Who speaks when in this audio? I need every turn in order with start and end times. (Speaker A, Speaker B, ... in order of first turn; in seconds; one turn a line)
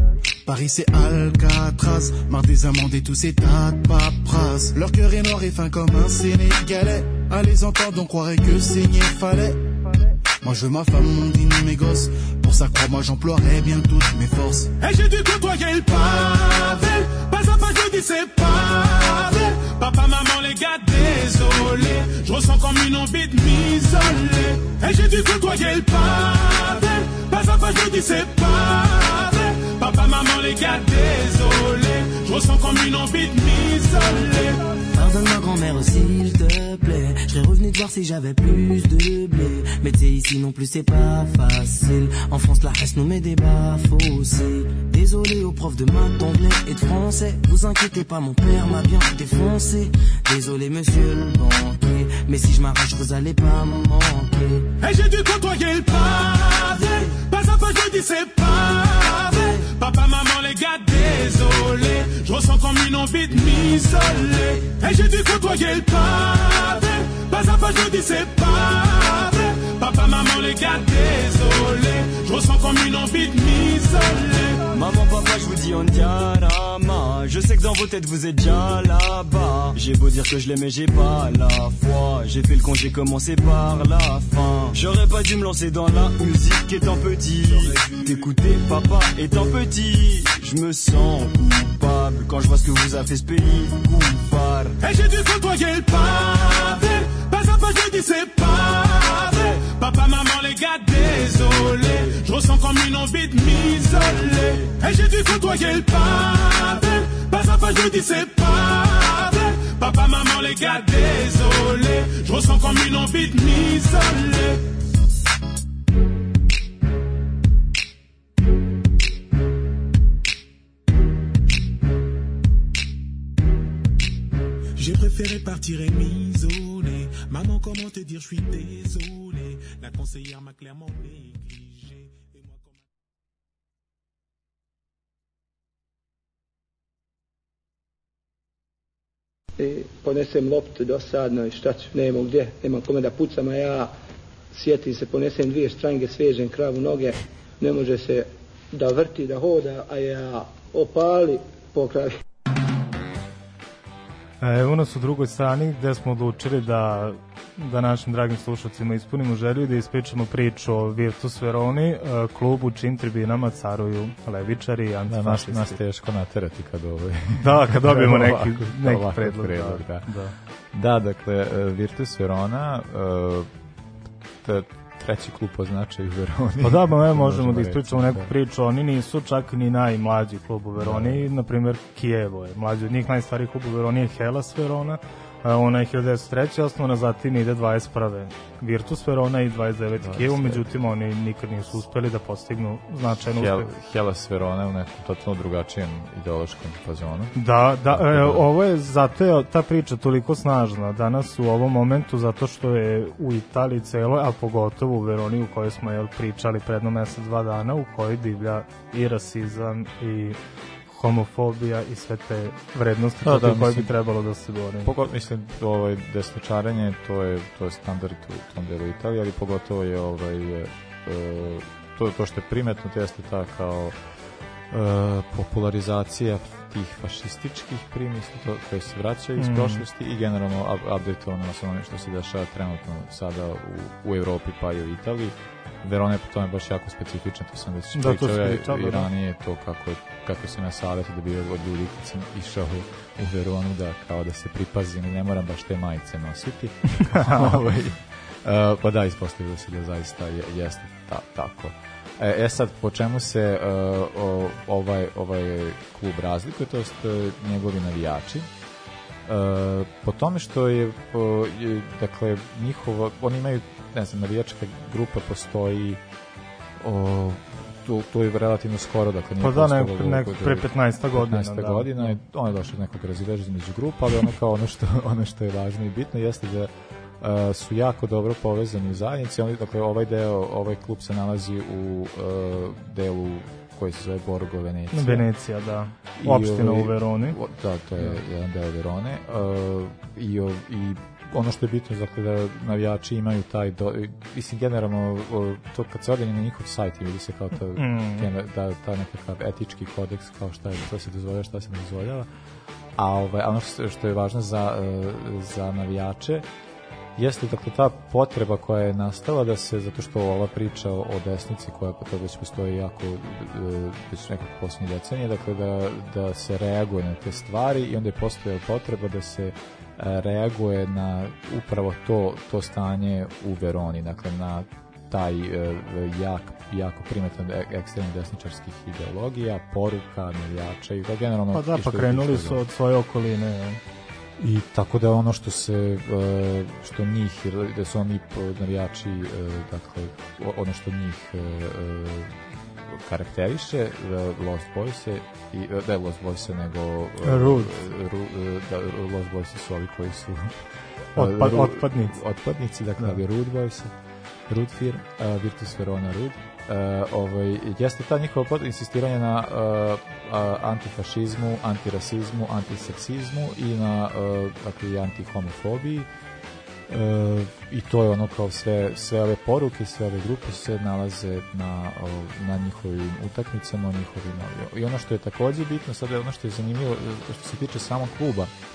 Speaker A: 0.5-9.6
Speaker A: 10.4-14.7
Speaker B: 14.8-34.6
Speaker C: 34.9-54.6
Speaker B: 54.8-74.6
Speaker D: 74.7-94.8
Speaker B: 94.8-114.6
Speaker B: 124.8-132.8
Speaker E: 139.6-143.9
Speaker E: 144.5-152.2
Speaker F: 154.4-165.8
Speaker G: 165.1-170.1
Speaker F: 167.3-170.3
Speaker G: 170.7-173.5
Speaker G: 174.4-178.3
Speaker F: 176.6-193.7
Speaker G: 180.8-181.3
Speaker G: 190.0-190.9
Speaker G: 193.3-197.3
Speaker F: 197.3-214.9
Speaker G: 197.9-198.5
Speaker G: 213.2-213.9
Speaker G: 214.8-224.0
Speaker G: 224.7-258.5
Speaker F: 229.4-229.8
Speaker F: 237.9-239.1
Speaker F: 247.1-247.6
Speaker G: 259.2-266.0
Speaker G: 266.8-285.3
Speaker F: 269.4-272.2
Speaker F: 284.9-287.4
Speaker G: 286.2-302.3
Speaker F: 297.8-298.3
Speaker G: 302.9-306.4
Speaker G: 307.1-332.6
Speaker F: 331.5-333.8
Speaker G: 334.4-350.6
Speaker F: 347.2-347.8
Speaker G: 351.1-353.9
Speaker F: 351.1-352.2
Speaker G: 354.5-366.1
Speaker G: 366.9-378.5